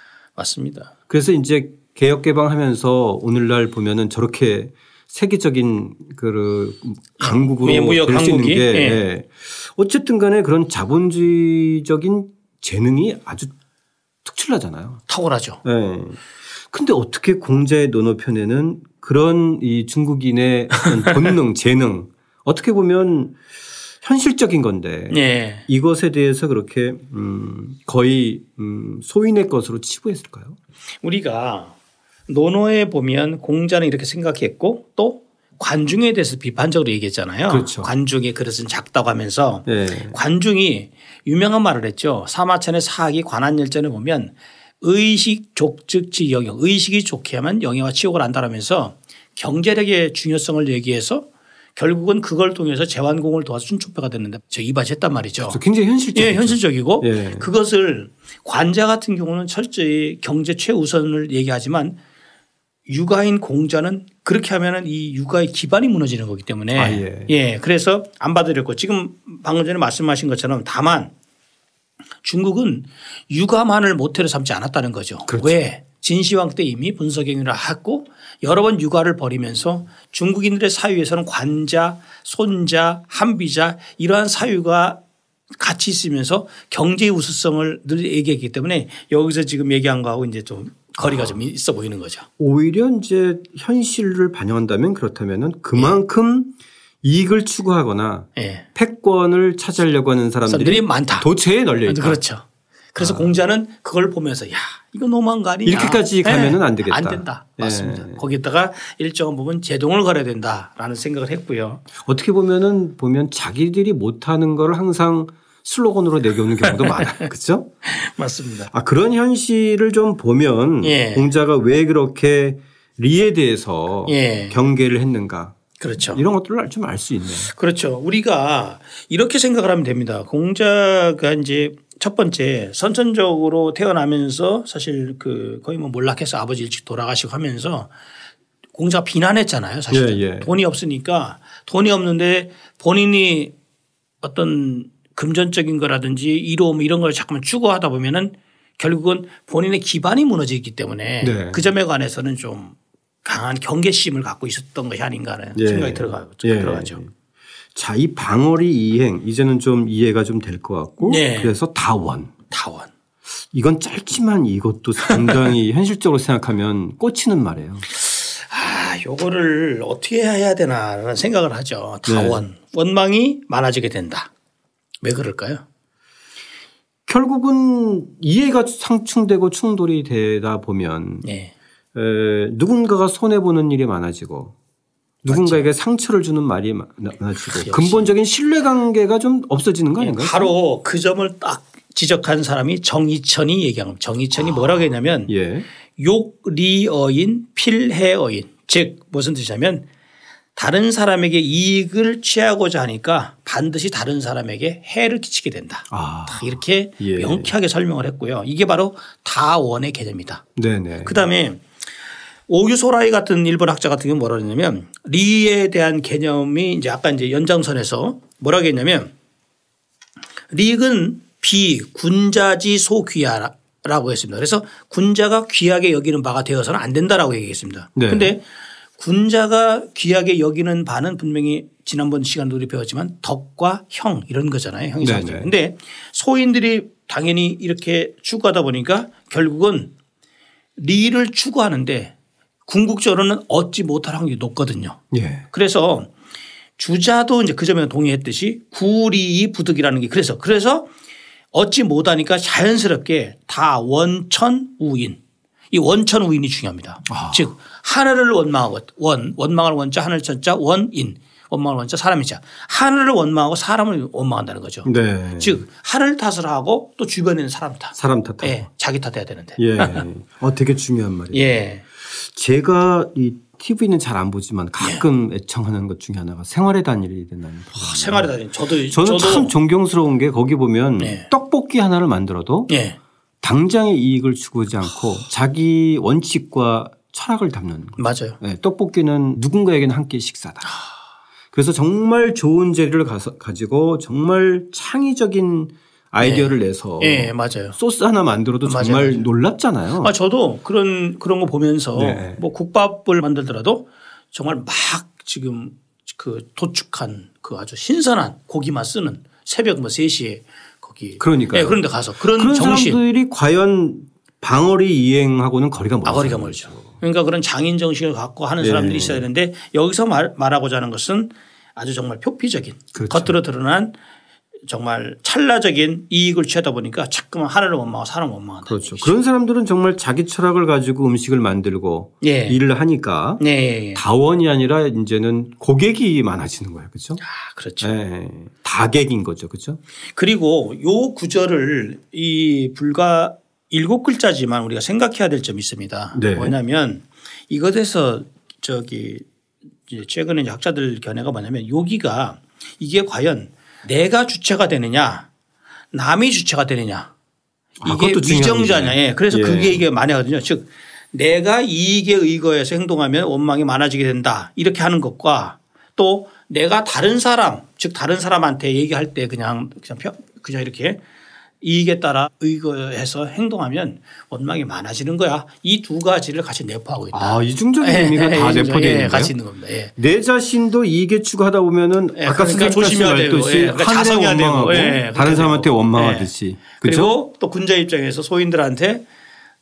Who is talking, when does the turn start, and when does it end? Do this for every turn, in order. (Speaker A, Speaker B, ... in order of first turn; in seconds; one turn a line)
Speaker A: 0.4-0.9
Speaker B: 1.1-13.5
Speaker A: 7.2-9.0
Speaker B: 14.2-15.0
Speaker A: 15.1-15.6
Speaker B: 15.6-23.4
Speaker B: 24.0-30.6
Speaker A: 25.1-25.7
Speaker A: 31.0-31.7
Speaker A: 32.3-55.6
Speaker B: 37.5-37.9
Speaker B: 39.7-40.2
Speaker B: 55.5-57.5
Speaker A: 56.1-62.0
Speaker A: 62.9-71.1
Speaker B: 66.7-67.3
Speaker A: 72.2-85.0
Speaker B: 75.3-75.6
Speaker A: 85.6-92.3
Speaker B: 91.0-91.4
Speaker B: 92.4-102.2
Speaker A: 98.4-98.7
Speaker A: 100.5-101.3
Speaker A: 101.9-111.8
Speaker B: 103.0-103.4
Speaker B: 105.7-108.2
Speaker B: 112.0-117.7
Speaker A: 116.7-117.3
Speaker A: 117.9-118.7
Speaker B: 118.7-125.6
Speaker A: 120.8-121.3
Speaker A: 124.1-124.6
Speaker A: 125.8-126.2
Speaker B: 126.1-127.5
Speaker A: 127.4-137.9
Speaker A: 138.7-143.5
Speaker B: 139.9-140.5
Speaker A: 144.2-157.0
Speaker B: 151.2-151.7
Speaker B: 155.6-157.1
Speaker B: 157.8-162.3
Speaker A: 161.0-161.6
Speaker A: 162.5-162.9
Speaker B: 163.5-167.9
Speaker A: 165.1-165.4
Speaker A: 167.9-174.3
Speaker B: 172.1-172.4
Speaker A: 175.0-175.6
Speaker B: 177.1-181.3
Speaker A: 181.2-181.5
Speaker B: 181.9-184.6
Speaker B: 185.2-190.5
Speaker A: 185.3-185.7
Speaker A: 187.5-188.1
Speaker A: 190.0-195.3
Speaker B: 195.3-195.7
Speaker A: 196.0-199.9
Speaker A: 200.6-210.4
Speaker B: 205.9-207.5
Speaker B: 210.6-211.3
Speaker A: 211.0-211.6
Speaker A: 212.5-219.1
Speaker A: 220.5-228.4
Speaker B: 227.9-228.4
Speaker A: 229.0-239.9
Speaker B: 235.0-235.5
Speaker A: 240.8-242.1
Speaker A: 242.7-245.0
Speaker B: 245.1-245.5
Speaker A: 245.5-246.1
Speaker A: 246.8-250.9
Speaker A: 251.5-255.2
Speaker A: 255.7-270.0
Speaker B: 257.1-257.5
Speaker B: 264.9-265.6
Speaker B: 268.0-268.7
Speaker B: 269.6-278.3
Speaker A: 271.3-271.8
Speaker A: 274.8-275.0
Speaker A: 277.8-279.6
Speaker B: 278.9-282.7
Speaker A: 281.0-281.3
Speaker A: 282.7-283.0
Speaker B: 283.4-290.7
Speaker A: 288.0-288.4
Speaker A: 290.6-290.9
Speaker B: 291.5-300.1
Speaker A: 296.2-297.8
Speaker A: 298.6-299.2
Speaker A: 300.0-313.0
Speaker B: 302.0-302.4
Speaker B: 311.2-317.0
Speaker A: 316.1-323.9
Speaker B: 318.6-319.3
Speaker B: 322.9-323.4
Speaker A: 324.7-329.2
Speaker B: 328.7-333.4
Speaker A: 332.2-332.6
Speaker A: 333.4-334.0
Speaker B: 333.9-337.2
Speaker A: 337.2-337.9
Speaker B: 337.8-339.8
Speaker A: 340.1-349.2
Speaker B: 346.1-346.6
Speaker A: 349.9-355.3
Speaker A: 355.9-357.1
Speaker B: 357.8-359.9
Speaker A: 357.9-371.0
Speaker A: 371.6-379.9
Speaker B: 377.1-379.3
Speaker B: 380.0-387.2
Speaker A: 382.1-389.1